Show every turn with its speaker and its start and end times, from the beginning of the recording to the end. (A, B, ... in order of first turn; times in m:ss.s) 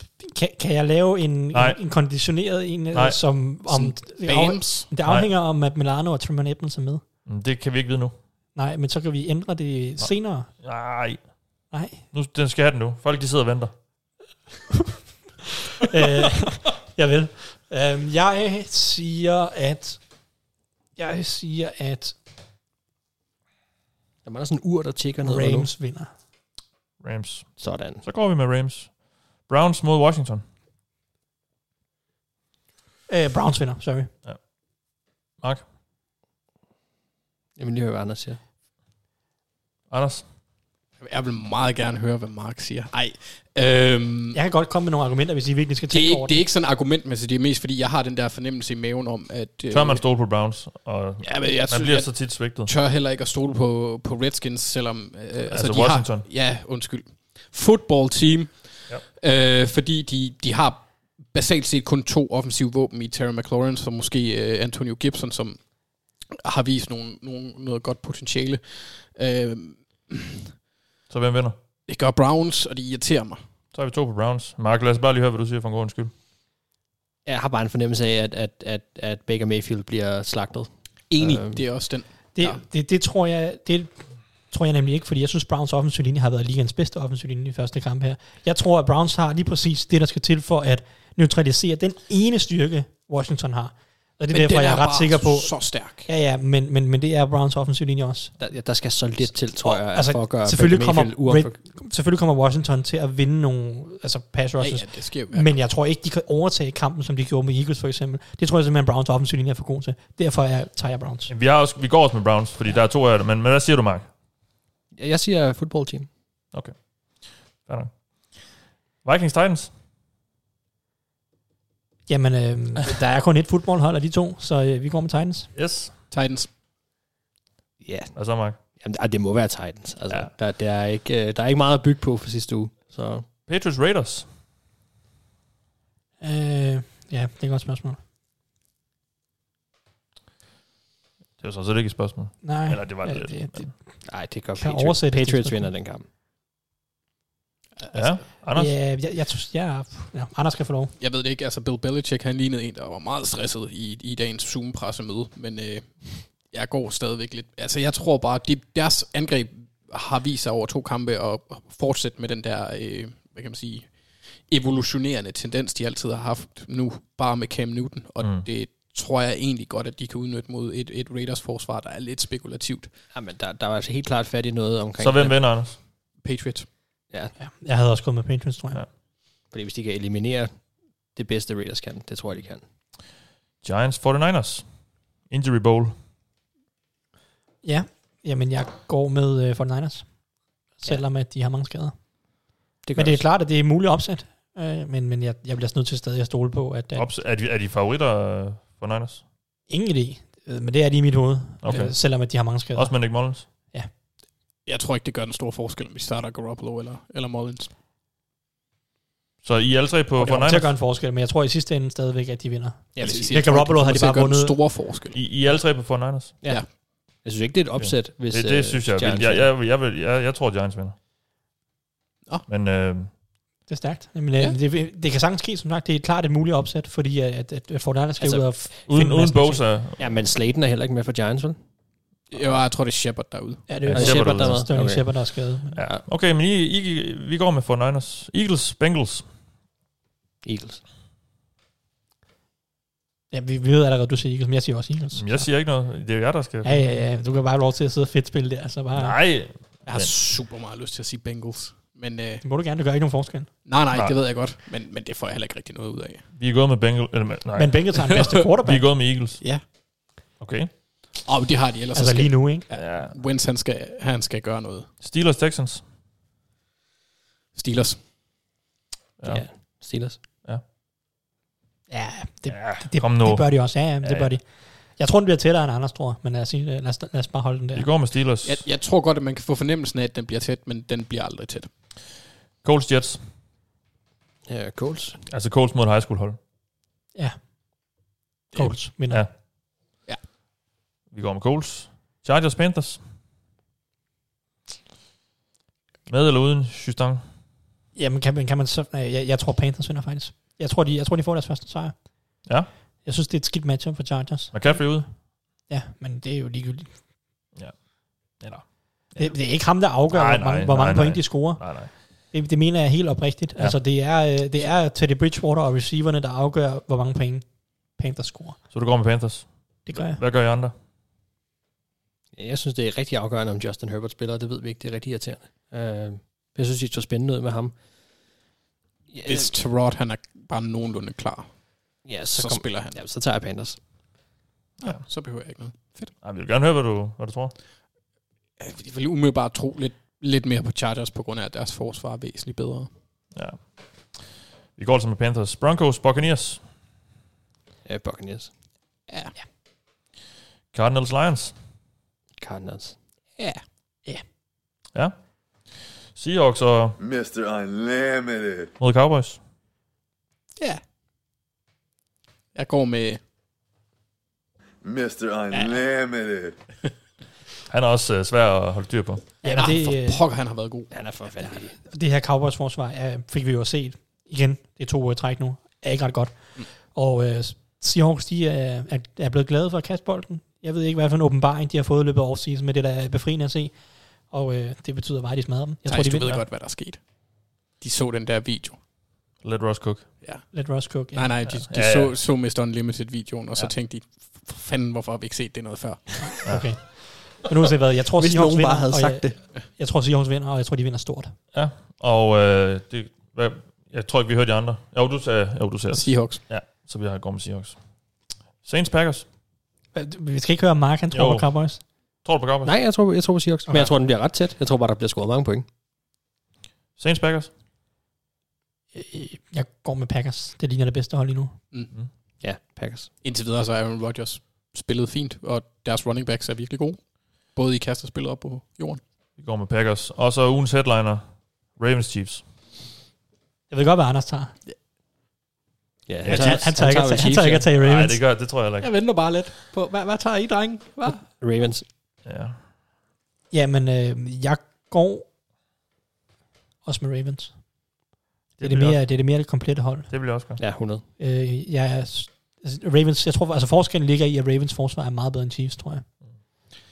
0:00.2-0:07.0 A
0:01.5-0:01.8 B
0:02.9-0:03.4 B
0:03.7-0:04.9 C
0:05.0-0:05.3 B
0:07.2-0:08.1 B
0:08.5-0:10.6 A
0:10.0-0:13.8 B
0:11.7-0:12.0 A
0:15.9-0:20.2 A
0:21.0-0:22.2 A
0:24.2-0:25.7 D
0:25.2-0:26.1 A
0:27.0-0:30.4 B
0:27.6-0:28.0 D
0:33.1-0:34.1 A
0:35.4-0:35.6 B
0:37.6-0:38.4 D
0:39.9-0:40.3 B
0:41.0-0:44.4 C
0:44.3-0:46.4 A
0:45.9-0:50.0 C
0:49.7-0:52.7 B
0:51.2-1:10.5 C
0:55.5-0:56.3 B
1:11.1-1:11.6 B
1:11.9-1:13.4 C
1:13.7-1:16.1 B
1:17.2-1:21.9 D
1:21.1-1:22.6 C
1:22.3-1:38.3 A
1:34.3-1:36.1 C
1:38.4-1:41.6 D
1:39.6-1:51.3 A
1:44.6-1:45.6 C
1:51.3-1:54.1 B
1:55.0-1:56.1 D
1:56.5-1:59.7 B
2:02.1-2:05.5 A
2:05.5-2:05.9 B
2:06.1-2:06.5 C
2:07.8-2:13.3 D
2:08.1-2:08.6 B
2:13.4-2:14.3 B
2:16.2-2:18.0 A
2:21.4-2:23.7 B
2:22.4-2:25.7 A
2:24.0-2:26.0 D
2:27.8-2:28.3 C
2:27.9-2:28.7 B
2:28.5-2:30.9 A
2:31.0-2:52.9 C
2:48.2-2:48.4 B
2:53.1-2:55.6 D
2:55.0-2:55.8 B
2:56.2-2:56.7 C
2:57.1-2:57.3 D
2:57.4-2:58.8 A
2:59.5-3:02.6 D
3:03.6-3:06.0 B
3:07.6-3:17.1 A
3:12.8-3:13.2 D
3:16.9-3:19.2 B
3:19.7-3:23.9 A
3:21.6-3:23.5 B
3:24.6-3:27.7 C
3:29.4-3:30.7 B
3:30.2-3:34.6 A
3:33.0-3:33.6 D
3:33.0-3:35.2 C
3:35.1-3:36.4 B
3:36.4-3:39.5 D
3:37.8-3:40.9 B
3:42.5-3:43.1 B
3:43.7-3:49.7 A
3:48.2-3:48.6 D
3:48.9-3:50.1 B
3:50.0-3:51.6 D
3:52.3-3:53.7 C
3:53.7-3:55.8 A
3:53.8-3:55.0 B
3:53.9-3:56.0 D
3:55.7-3:59.2 B
4:00.4-4:00.8 D
4:03.3-4:05.5 A
4:05.1-4:06.8 B
4:06.6-4:09.3 A
4:08.9-4:10.1 B
4:09.8-4:12.4 C
4:12.4-4:13.5 A
4:13.6-4:16.2 C
4:13.9-4:14.2 B
4:16.3-4:19.8 B
4:17.6-4:18.9 A
4:19.4-4:19.6 C
4:20.4-4:20.7 B
4:21.2-4:24.9 C
4:21.9-4:22.6 A
4:22.7-4:23.2 B
4:25.0-4:25.8 B
4:27.6-4:28.0 C
4:29.2-4:30.6 B
4:29.2-4:30.2 D
4:31.9-4:37.9 A
4:32.5-4:34.3 B
4:37.7-4:38.6 B
4:38.4-4:41.7 C
4:42.6-4:43.3 B
4:44.5-4:45.2 D
4:45.3-4:46.4 B
4:47.1-4:48.0 A
4:48.5-4:49.3 A
4:49.1-4:49.4 B
4:51.1-4:53.0 B
4:56.1-4:57.2 B
4:57.9-5:02.5 A
5:03.0-5:07.0 A
5:04.5-5:05.2 B
5:07.5-5:12.0 B
5:09.2-5:18.7 A
5:18.7-5:20.7 B
5:19.8-5:20.2 A
5:22.3-5:27.8 D
5:29.1-5:29.5 D
5:29.2-5:33.0 C
5:32.0-5:33.8 D
5:34.8-5:36.1 C
5:36.2-5:37.6 B
5:38.6-5:42.9 C
5:43.3-5:46.6 B
5:47.8-5:48.5 D
5:50.7-5:51.6 B
5:52.4-5:53.0 D
5:53.4-5:53.6 C
5:54.9-5:57.0 B
5:57.0-5:58.7 E
5:58.8-5:59.4 B
6:02.5-6:03.2 C
6:04.8-6:06.6 E
6:07.7-6:09.4 B
6:09.4-6:11.4 C
6:09.4-6:10.2 A
6:10.9-6:11.8 D
6:11.8-6:26.4 A
6:25.8-6:28.8 C
6:29.4-6:30.2 B
6:30.2-6:36.6 C
6:30.5-6:31.3 A
6:31.4-6:32.1 B
6:36.4-6:36.8 B
6:36.4-6:41.4 A
6:38.2-6:39.4 D
6:41.5-6:49.3 B
6:45.9-6:46.4 C
6:49.9-6:51.8 A
6:51.1-6:52.7 B
6:52.6-6:55.6 D
6:57.0-6:57.5 B
6:58.9-7:01.6 A
7:02.4-7:03.1 D
7:03.2-7:09.0 C
7:09.4-7:12.4 B
7:13.7-7:14.5 A
7:16.1-7:17.7 D
7:16.2-7:16.6 B
7:16.2-7:18.2 A
7:17.8-7:18.9 B
7:18.8-7:21.2 C
7:21.0-7:21.8 D
7:22.2-7:22.6 B
7:23.5-7:25.3 A
7:26.8-7:27.6 A
7:28.6-7:30.2 A
7:28.6-7:30.6 B
7:30.6-7:31.0 D
7:31.2-7:36.0 A